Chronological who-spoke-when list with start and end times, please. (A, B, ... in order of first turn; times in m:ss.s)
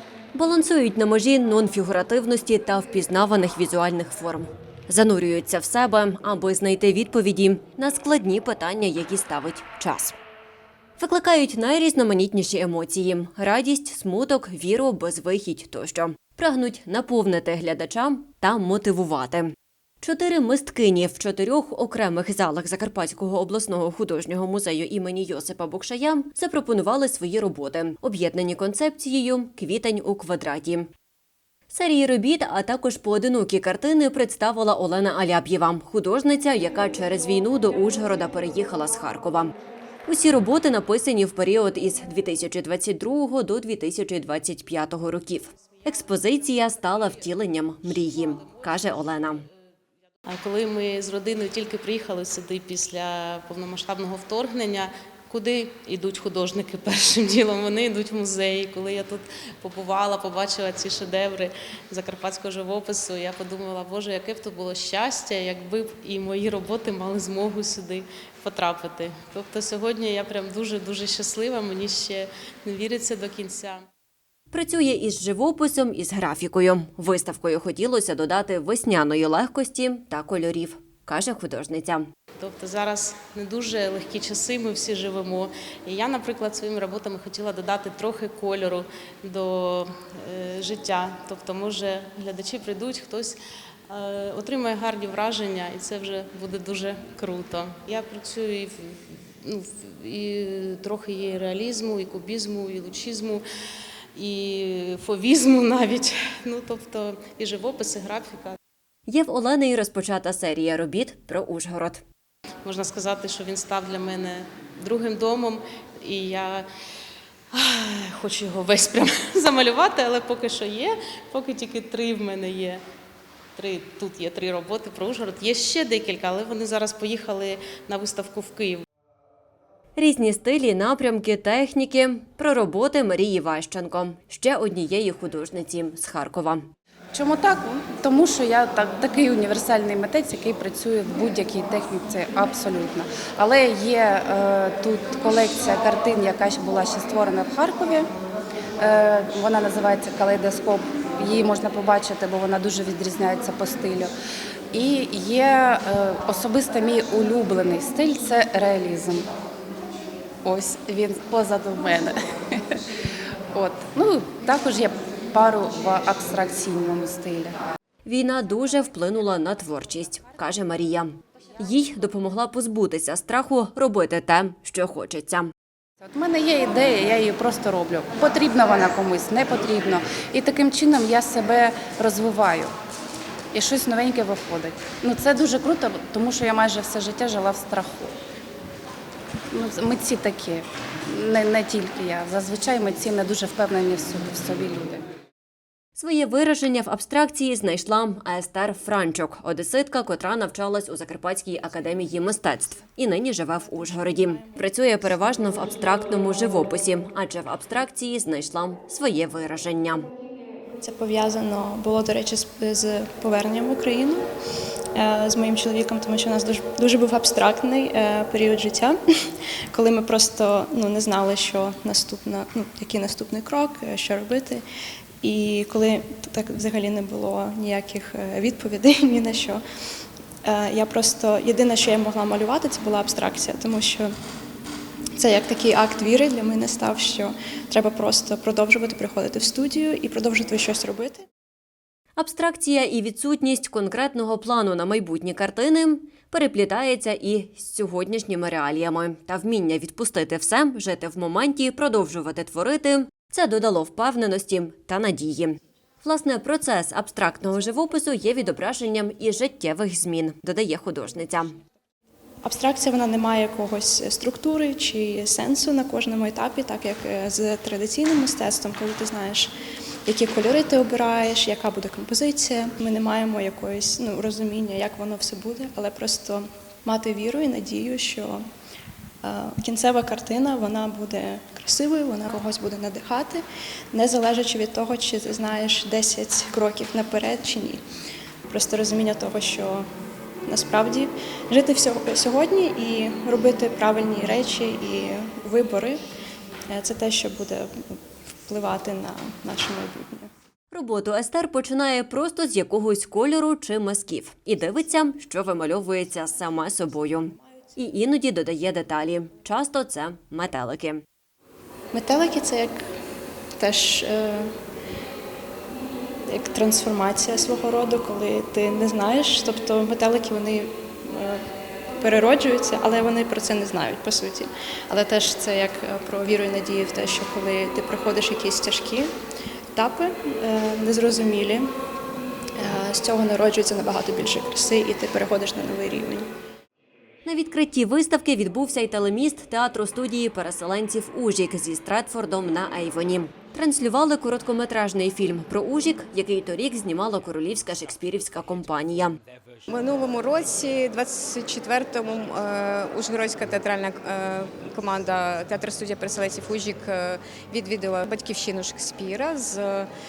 0:00.3-0:10.1 A
0:11.0-0:30.9 A
0:31.7-0:39.5 A
0:40.0-0:49.4 A
0:50.2-1:13.8 B
1:14.5-1:22.1 A
1:22.4-1:33.4 B
1:33.9-1:43.4 B
1:44.1-1:48.6 B
1:49.1-1:52.0 A
1:52.6-1:56.6 B
1:57.5-2:02.8 B
2:03.6-2:08.8 B
2:10.0-2:16.6 A
2:17.1-2:28.1 C
2:28.8-2:34.1 C
2:34.7-2:39.3 C
2:40.4-2:42.8 C
2:43.5-2:47.5 C
2:48.0-2:55.5 A
2:56.0-3:02.7 C
3:03.5-3:08.1 C
3:09.5-3:15.0 C
3:16.0-3:30.0 A
3:24.2-3:24.7 D
3:30.8-3:34.2 D
3:34.9-3:39.0 D
3:39.7-3:44.6 D
3:45.2-3:49.6 D
3:50.4-3:54.1 D
3:55.2-4:01.2 D
4:02.2-4:21.5 A
4:22.4-4:29.5 D
4:30.1-4:38.4 D
4:39.2-4:47.8 D
4:48.5-4:49.8 D
4:50.4-4:56.0 D
4:56.7-4:57.7 D
4:58.5-5:00.3 D
5:00.7-5:11.0 A
5:11.9-5:12.7 D
5:13.6-5:14.5 D
5:16.3-5:21.4 D
5:22.0-5:29.1 D
5:29.7-5:31.6 D
5:32.6-5:36.2 D
5:37.2-5:49.2 A
5:49.7-5:59.9 E